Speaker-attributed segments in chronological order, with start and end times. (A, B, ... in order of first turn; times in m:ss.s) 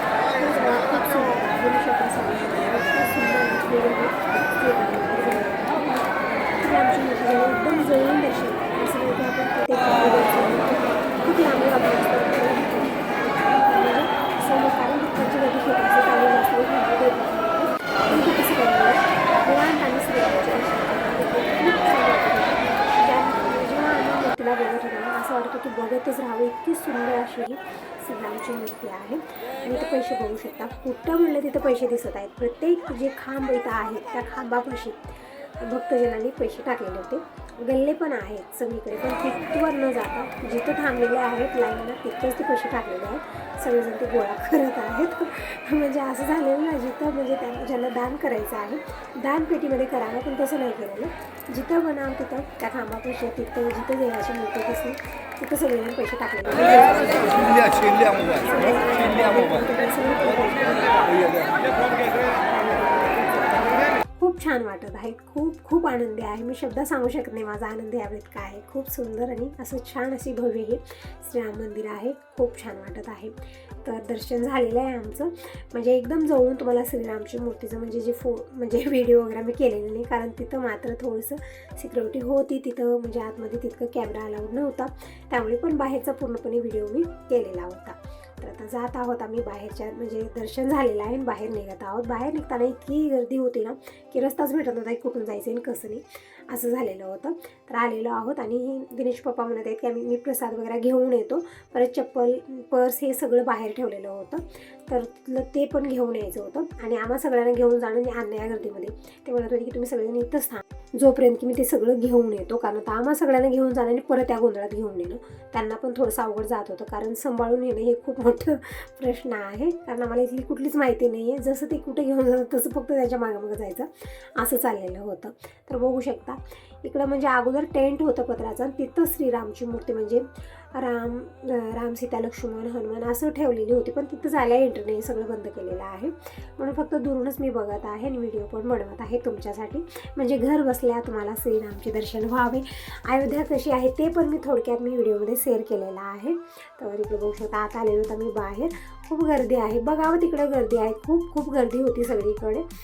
0:00.3-2:32.6 A